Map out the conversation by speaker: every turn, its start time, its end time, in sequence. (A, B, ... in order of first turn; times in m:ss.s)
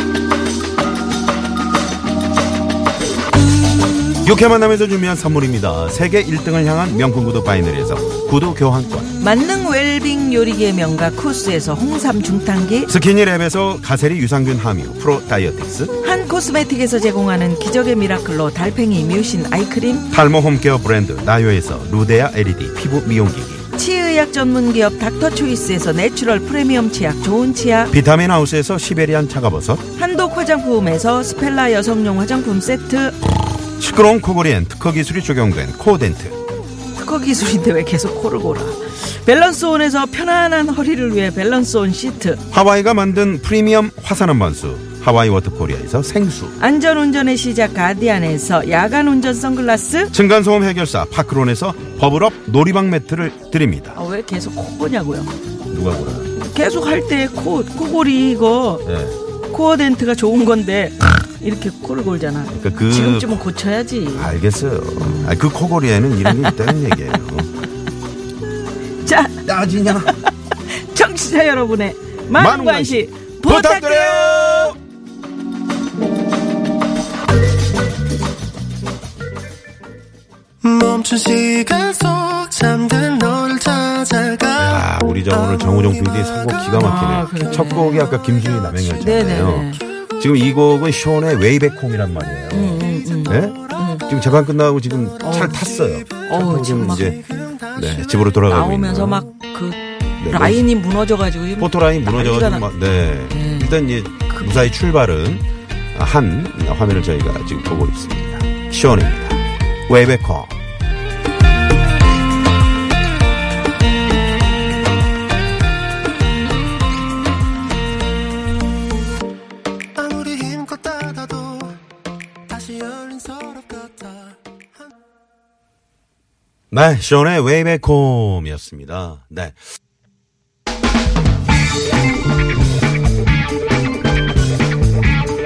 0:04.2-0:09.1 A
0:09.2-0:12.9 B
0:12.9-0:15.9 A
0:16.0-0:20.1 B
0:20.1-0:23.6 A
0:23.7-0:27.9 B
0:27.9-0:29.8 A
0:30.0-0:33.2 B
0:33.8-0:36.4 A
0:37.0-0:42.4 B
0:42.5-0:46.6 A
0:46.6-0:50.1 B
0:50.1-0:54.0 A
0:53.9-0:55.3 B
0:55.7-0:56.3 A
0:56.4-0:58.9 B
0:58.8-0:59.2 A
0:59.5-1:04.4 B
1:02.5-1:03.4 A
1:04.1-1:07.5 A
1:05.0-1:05.4 B
1:06.2-1:06.9 B
1:08.9-1:14.7 B
1:09.4-1:10.2 A
1:12.3-1:14.8 A
1:20.8-1:24.2 C
1:24.5-1:39.3 A
1:26.7-1:28.1 B
1:28.9-1:29.8 B
1:32.5-1:34.1 B
1:35.2-1:35.6 B
1:36.2-1:37.2 B
1:38.5-1:42.7 B
1:40.2-1:40.7 A
1:41.6-1:50.6 A
1:43.3-1:43.8 B
1:44.3-1:44.7 B
2:03.2-2:03.8 C
2:06.7-2:09.6 A